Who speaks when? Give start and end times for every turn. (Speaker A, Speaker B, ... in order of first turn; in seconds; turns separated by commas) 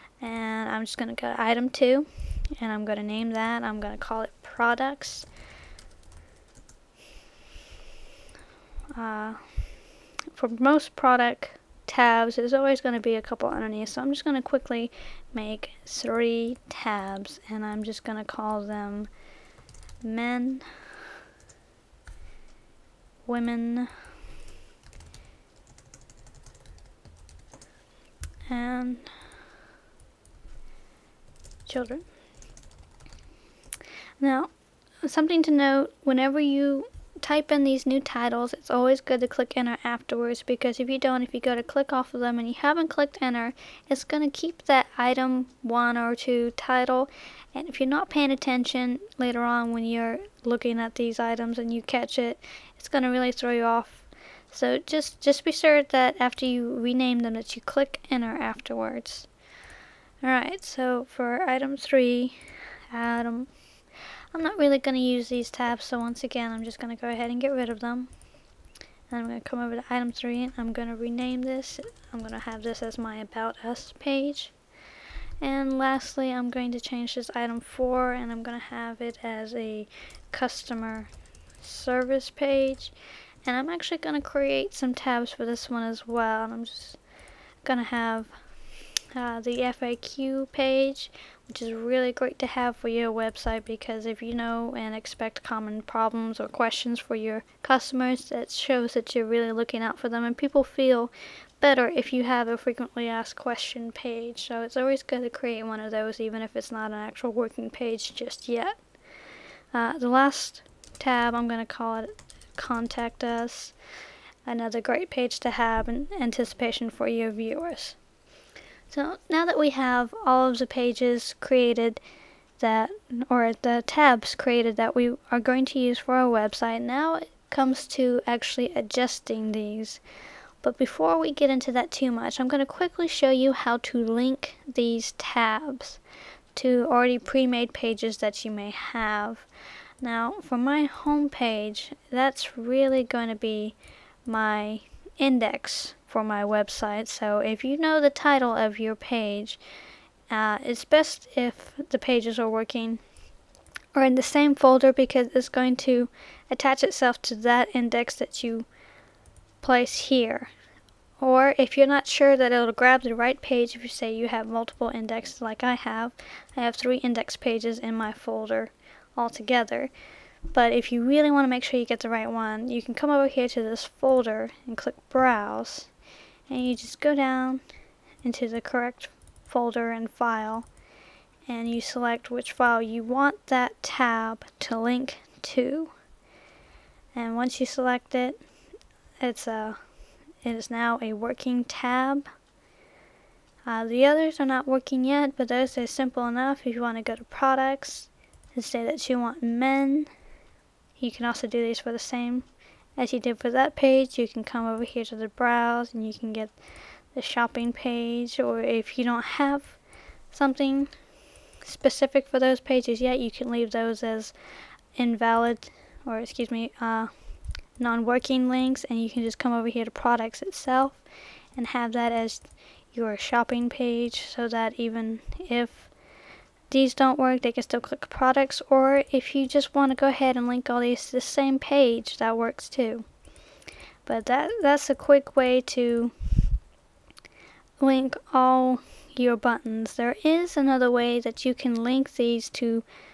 Speaker A: 0.2-5.3, Speaker A: 8.9-9.4, Speaker A: 10.3-19.1, Speaker A: 20.0-20.6, Speaker A: 23.2-23.9, Speaker A: 28.5-29.1, Speaker A: 31.6-32.0, Speaker A: 34.2-34.5, Speaker A: 35.0-59.3, Speaker A: 60.2-62.4, Speaker A: 62.9-63.5, Speaker A: 64.3-68.1, Speaker A: 69.1-74.5, Speaker A: 75.4-81.1, Speaker A: 81.6-82.9, Speaker A: 83.4-87.0, Speaker A: 87.6-88.3, Speaker A: 89.1-108.8, Speaker A: 109.7-113.7, Speaker A: 114.5-118.0, Speaker A: 118.9-122.0, Speaker A: 122.6-130.0, Speaker A: 130.6-136.0, Speaker A: 136.5-139.5, Speaker A: 140.0-149.6, Speaker A: 150.3-153.0, Speaker A: 153.9-158.7, Speaker A: 159.6-160.5, Speaker A: 161.2-169.9, Speaker A: 170.5-175.9, Speaker A: 176.5-177.6, Speaker A: 178.2-180.7, Speaker A: 181.5-185.9, Speaker A: 187.1-188.4, Speaker A: 189.2-189.8, Speaker A: 190.4-192.3, Speaker A: 193.7-200.1, Speaker A: 201.0-202.4, Speaker A: 203.0-206.6, Speaker A: 207.1-209.8, Speaker A: 210.3-210.9, Speaker A: 211.6-214.3, Speaker A: 214.9-217.1, Speaker A: 217.8-221.0, Speaker A: 221.6-225.9, Speaker A: 226.7-233.1, Speaker A: 234.1-236.1, Speaker A: 237.8-242.8